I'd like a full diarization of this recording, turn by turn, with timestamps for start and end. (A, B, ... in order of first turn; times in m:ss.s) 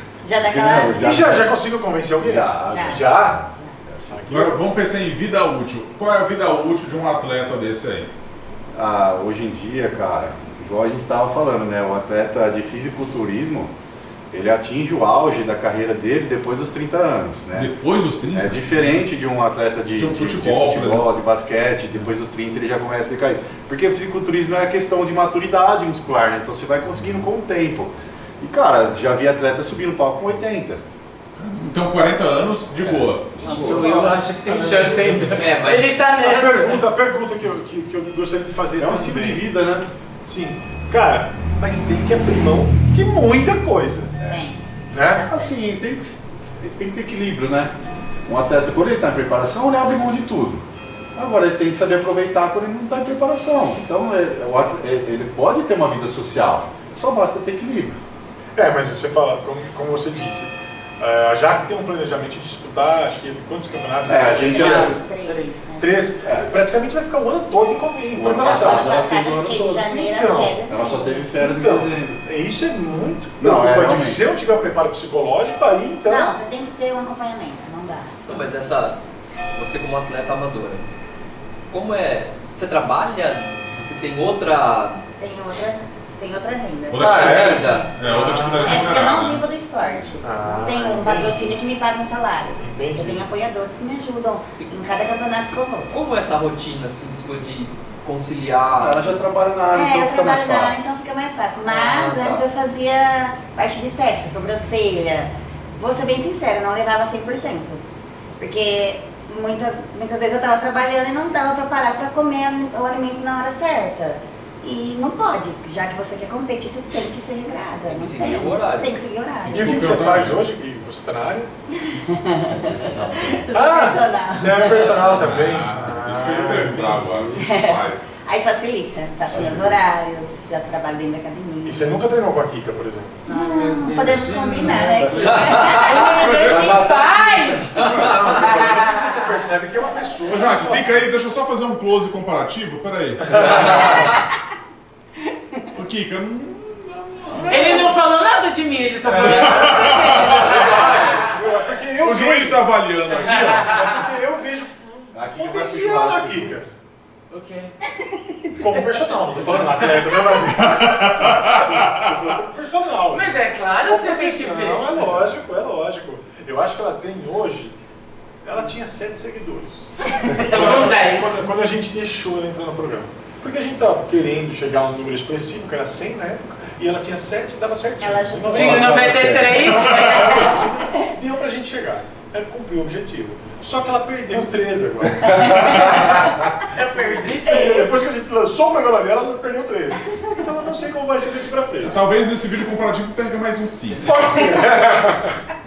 0:00.2-0:01.0 A
0:00.4-0:01.5 B
0:00.9-0:03.4 C
0:02.2-0:04.2 B
0:02.7-0:03.8 A
0:04.1-0:04.7 C
0:04.3-0:08.1 D
0:08.7-0:13.7 B
0:14.3-0:17.7 B
0:17.6-0:18.9 D
0:18.3-0:30.8 B
0:20.0-0:21.1 D
0:31.4-0:33.5 D
0:32.9-0:33.8 B
0:33.4-0:36.8 E
0:33.7-0:35.2 C
0:34.6-0:36.0 F
0:36.0-0:39.5 C
0:38.8-0:39.9 B
0:40.2-0:44.2 C
0:44.2-0:44.5 B
0:44.2-0:45.7 A
0:44.9-0:45.2 C
0:45.2-0:47.7 B
0:48.3-0:50.6 B
0:51.2-0:58.0 B
0:58.6-1:05.0 C
1:04.1-1:05.0 B
1:04.5-1:05.9 A
1:04.5-1:05.6 E
1:05.8-1:10.6 C
1:06.2-1:06.5 B
1:08.1-1:09.8 B
1:08.4-1:11.2 A
1:10.7-1:12.2 B
1:11.3-1:16.4 C
1:13.4-1:14.2 B
1:16.1-1:18.2 A
1:18.3-1:19.0 F
1:19.6-1:20.9 F
1:21.7-1:25.0 F
1:25.2-1:27.9 A
1:26.9-1:29.5 D
1:27.0-1:27.9 F
1:27.0-1:29.1 C
1:28.6-1:35.9 A
1:30.2-1:31.6 C
1:32.6-1:33.2 C
1:35.9-1:39.2 F
1:38.8-1:40.9 B
1:39.7-1:47.8 A
1:41.6-1:42.4 F
1:48.4-2:00.0 A
1:57.9-1:59.0 F
1:59.5-2:00.4 D
1:59.5-2:01.5 C
2:01.7-2:05.0 A
2:02.5-2:03.4 B
2:03.5-2:07.3 C
2:05.2-2:08.0 D
2:07.4-2:12.0 A
2:09.3-2:09.8 B
2:11.6-2:13.2 C
2:13.3-2:19.4 E
2:13.3-2:16.5 A
2:14.0-2:15.7 B
2:15.2-2:16.1 F
2:15.9-2:16.8 D
2:16.4-2:17.6 B
2:17.8-2:18.4 D
2:17.8-2:18.3 F
2:18.0-2:20.9 C
2:20.3-2:24.0 D
2:23.2-2:24.0 C
2:25.8-2:27.6 D
2:27.3-2:27.9 C
2:27.5-2:31.3 E
2:29.0-2:36.7 C
2:29.2-2:30.8 D
2:32.0-2:33.9 D
2:35.1-2:36.6 B
2:37.3-2:37.7 E
2:38.0-2:38.4 A
2:38.6-2:47.8 C
2:40.6-2:42.1 D
2:43.1-2:44.9 E
2:48.4-2:59.1 C
2:50.1-2:50.8 A
2:50.4-2:51.4 E
2:58.0-2:59.2 A
2:58.5-3:00.7 E
2:58.5-2:59.8 B
2:59.8-3:06.4 C
3:05.2-3:06.4 B
3:06.7-3:07.8 E
3:07.0-3:12.0 C
3:11.8-3:14.5 D
3:14.0-3:15.3 C